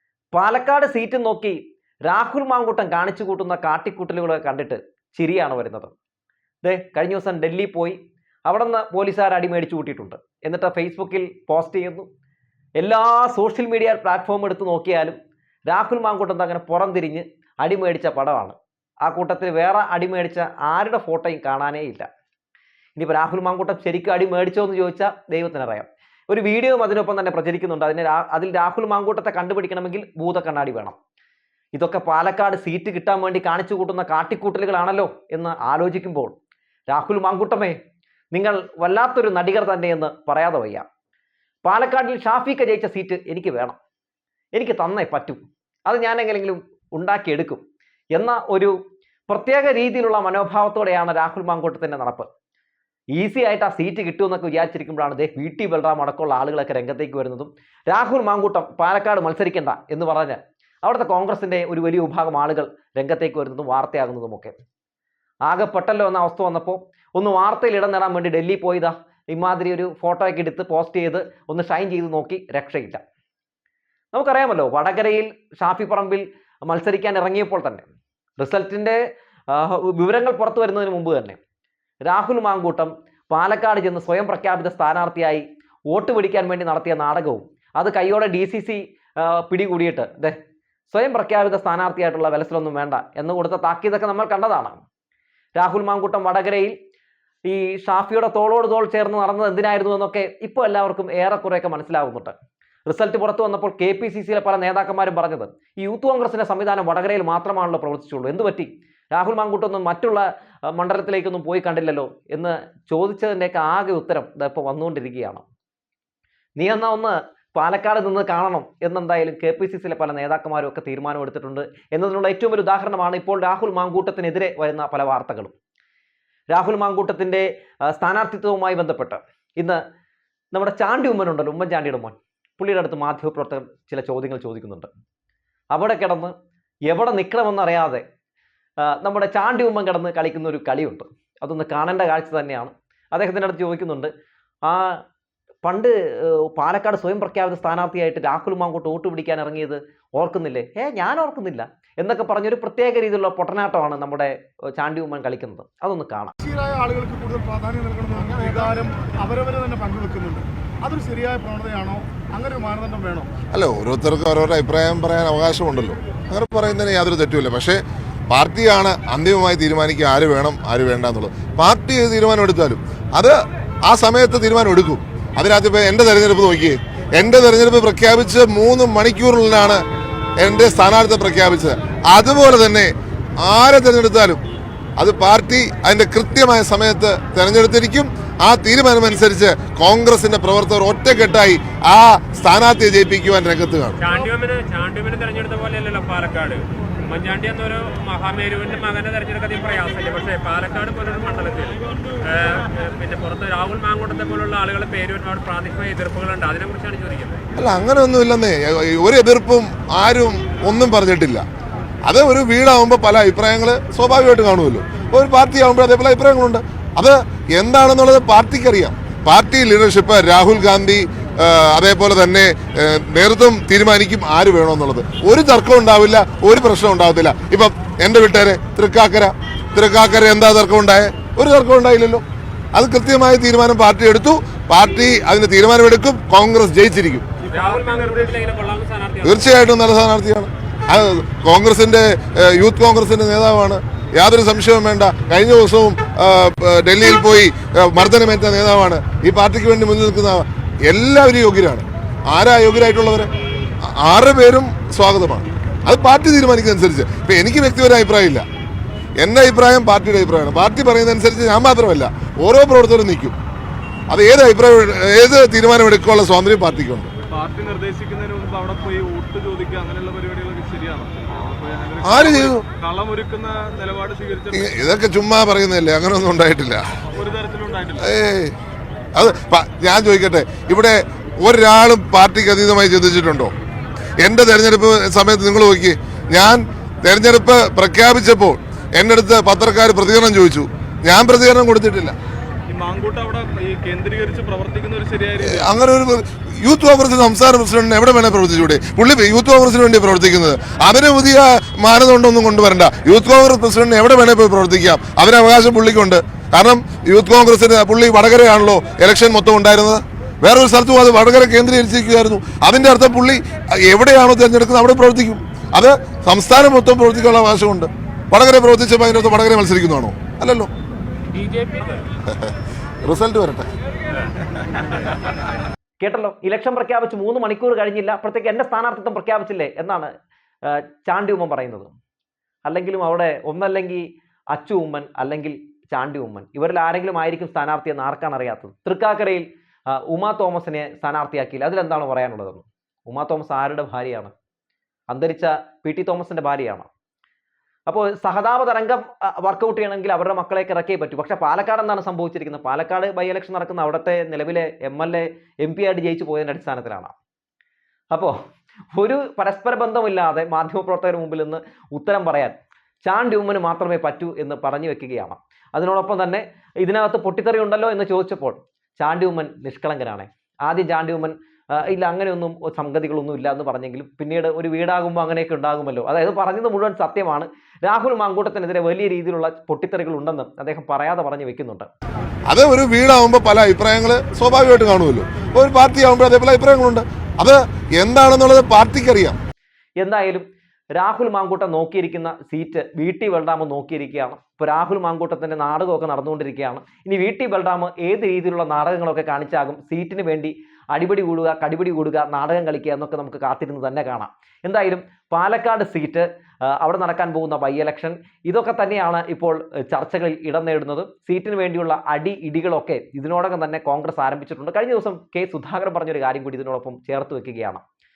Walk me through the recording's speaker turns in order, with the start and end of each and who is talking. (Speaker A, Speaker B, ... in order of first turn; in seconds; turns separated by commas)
Speaker A: 0.3-5.9, Speaker A: 6.6-12.1, Speaker A: 12.8-15.2, Speaker A: 15.7-22.1, Speaker A: 23.0-30.9, Speaker A: 31.7-36.3, Speaker A: 36.9-37.8, Speaker A: 38.3-40.8, Speaker A: 41.6-43.8, Speaker A: 44.5-47.6, Speaker A: 48.1-48.7, Speaker A: 49.3-52.3, Speaker A: 53.1-64.5, Speaker A: 65.4-73.0, Speaker A: 74.1-77.8, Speaker A: 78.4-79.0, Speaker A: 79.5-81.4, Speaker A: 82.0-90.4, Speaker A: 90.9-94.8, Speaker A: 95.5-96.8, Speaker A: 97.4-102.3, Speaker A: 102.9-115.4, Speaker A: 116.6-125.5, Speaker A: 126.5-129.8, Speaker A: 130.5-134.9, Speaker A: 135.7-136.3, Speaker A: 136.9-138.0, Speaker A: 138.8-144.1, Speaker A: 144.6-145.0, Speaker A: 145.6-156.3, Speaker B: 156.4-163.3, Speaker C: 163.5-179.8, Speaker C: 180.4-184.4, Speaker C: 185.0-194.0, Speaker D: 194.0-207.4, Speaker C: 207.6-211.4, Speaker C: 212.0-232.2, Speaker C: 232.7-237.2, Speaker E: 237.4-238.4, Speaker D: 237.5-239.5, Speaker C: 239.2-253.3, Speaker C: 253.8-258.4, Speaker C: 259.2-263.4, Speaker C: 264.1-267.1, Speaker E: 267.3-274.7, Speaker C: 272.0-272.6, Speaker C: 274.5-276.8, Speaker E: 277.1-278.1, Speaker C: 278.0-278.5, Speaker C: 279.1-283.5, Speaker C: 284.2-292.1, Speaker E: 292.7-295.6, Speaker C: 295.4-320.7, Speaker D: 321.3-322.1, Speaker C: 322.3-323.7, Speaker A: 326.0-330.1, Speaker A: 330.6-331.9, Speaker A: 332.6-344.3, Speaker A: 345.1-346.9, Speaker A: 347.9-357.1, Speaker A: 358.1-358.4, Speaker A: 358.9-381.9, Speaker C: 382.5-389.4, Speaker A: 390.0-417.8